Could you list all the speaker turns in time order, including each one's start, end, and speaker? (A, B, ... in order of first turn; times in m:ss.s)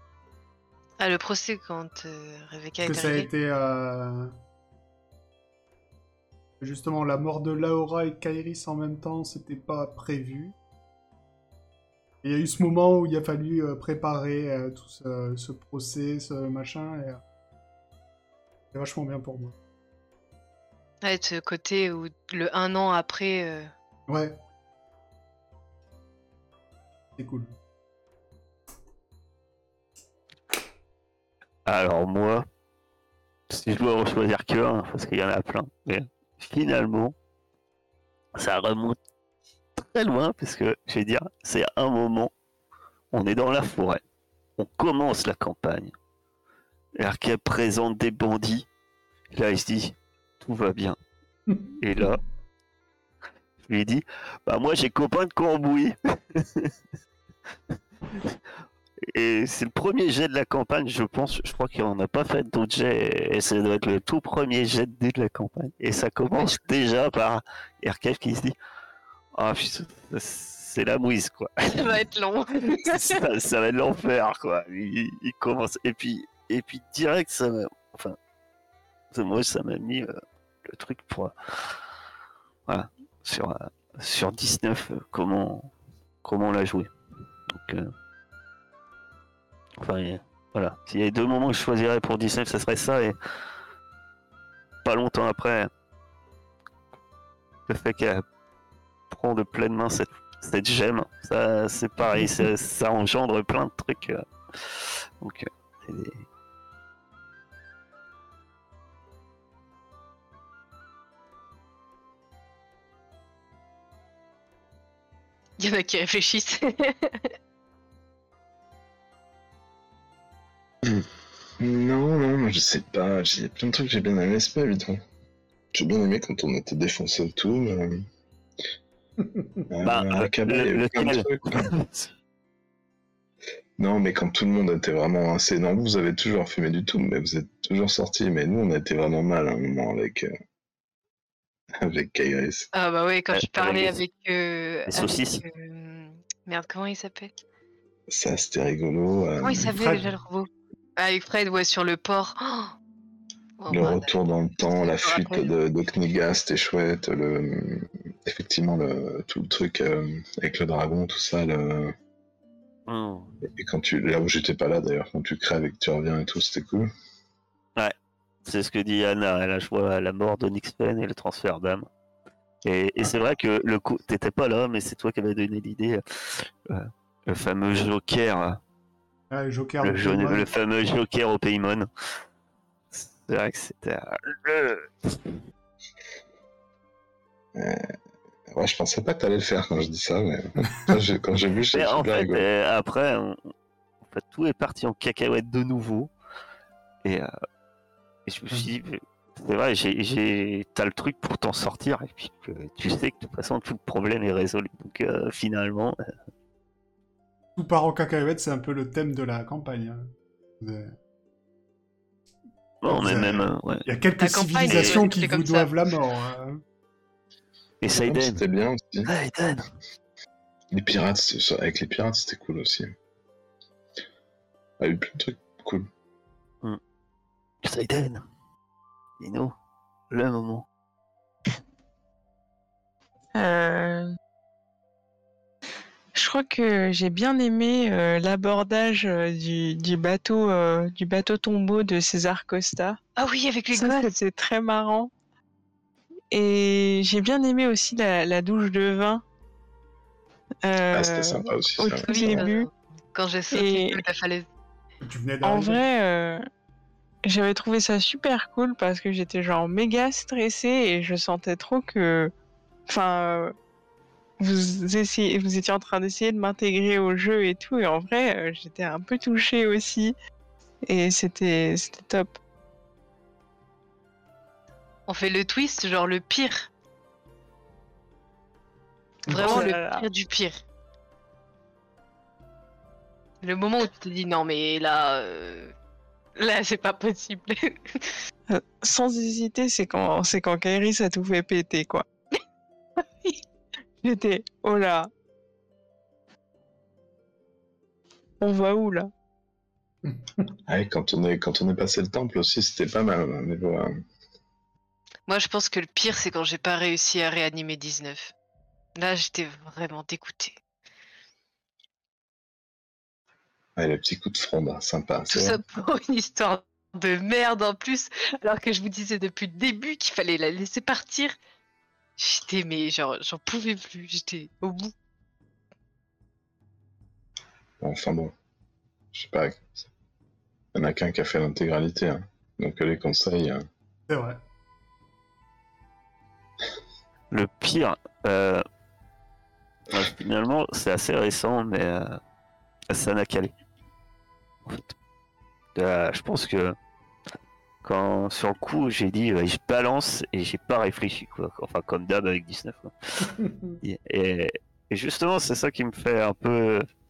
0:01.0-0:03.3 A
0:02.8-0:04.3 B
0:06.6-0:10.5 B
0:12.2-0:17.2 B
0:18.7-0:19.5 B
0:21.0-0:23.7 A
0:24.1-0:24.4 B
0:27.2-0:27.5 B
0:31.6-0:32.5 C
0:33.5-0:37.1 C
0:38.3-0:39.0 C
0:39.8-0:42.3 C
0:43.1-0:44.0 C
0:44.6-0:45.9 C
0:47.0-0:48.7 C
0:49.3-0:51.0 C
0:51.8-0:52.2 C
0:53.6-0:56.7 C
0:58.1-0:58.4 C
0:59.1-1:08.5 C
1:09.3-1:11.9 C
1:11.7-1:13.2 A
1:12.8-1:18.2 C
1:19.1-1:20.1 C
1:20.6-1:21.8 C
1:22.6-1:25.7 C
1:26.2-1:26.9 C
1:27.5-1:27.9 C
1:29.8-1:33.2 C
1:34.8-1:35.7 C
1:37.7-1:38.2 C
1:39.1-1:46.2 C
1:55.6-1:57.3 A
2:01.6-2:05.0 D
2:05.7-2:08.0 D
2:09.7-2:11.7 D
2:09.8-2:12.1 C
2:13.8-2:20.3 D
2:21.8-2:22.7 D
2:22.7-2:27.3 A
2:23.3-2:24.0 C
2:24.9-2:25.4 C
2:28.1-2:29.7 D
2:29.4-2:32.7 A
2:29.7-2:30.1 B
2:33.6-2:34.1 A
2:33.7-2:41.9 D
2:34.8-2:35.5 A
2:42.9-2:43.3 C
2:43.5-2:46.9 D
2:48.4-2:51.9 C
2:52.6-2:58.6 C
2:59.3-3:00.5 B
2:59.8-3:01.9 C
3:02.9-3:05.3 C
3:07.5-3:07.8 D
3:08.6-3:12.4 D
3:11.7-3:13.5 C
3:14.0-3:16.1 C
3:18.2-3:26.0 C
3:27.6-3:30.1 B
3:30.6-3:30.9 B
3:32.8-3:33.8 C
3:32.8-3:36.6 B
3:34.2-3:35.7 A
3:34.7-3:35.0 C
3:37.8-3:38.4 C
3:38.0-3:39.1 D
3:39.1-3:39.7 C
3:40.7-3:42.9 D
3:44.8-3:45.9 D
3:47.6-3:48.2 C
3:49.2-3:49.5 C
3:50.1-3:50.6 C
3:53.3-3:54.1 E
3:56.1-4:03.0 E
4:03.2-4:04.1 A
4:03.7-4:05.1 E
4:06.3-4:09.2 E
4:10.6-4:12.7 E
4:10.9-4:12.5 D
4:12.0-4:14.5 A
4:13.5-4:14.0 E
4:15.0-4:15.8 B
4:15.4-4:16.4 E
4:17.2-4:22.3 E
4:22.9-4:23.5 E
4:24.4-4:30.1 E
4:30.9-4:32.3 E
4:35.1-4:36.7 A
4:39.3-4:39.6 B
4:39.3-4:40.0 E
4:39.3-4:40.6 A
4:43.4-4:45.7 A
4:46.4-4:48.2 A
4:48.5-4:52.0 E
4:54.0-4:55.1 E
4:58.4-4:59.1 E
5:00.0-5:00.4 B
5:00.7-5:03.9 D
5:05.3-5:08.3 A
5:09.0-5:10.6 A
5:13.8-5:15.6 D
5:15.3-5:21.4 A
5:22.2-5:24.9 A
5:27.8-5:28.3 D
5:29.1-5:29.8 D
5:30.7-5:33.6 D
5:34.1-5:34.4 B
5:37.3-5:38.6 C
5:39.9-5:42.2 C
5:42.9-5:43.5 C
5:44.6-5:44.9 C
5:45.7-5:46.8 C
5:47.8-5:53.3 C
5:53.3-5:53.8 B
5:53.8-5:56.8 C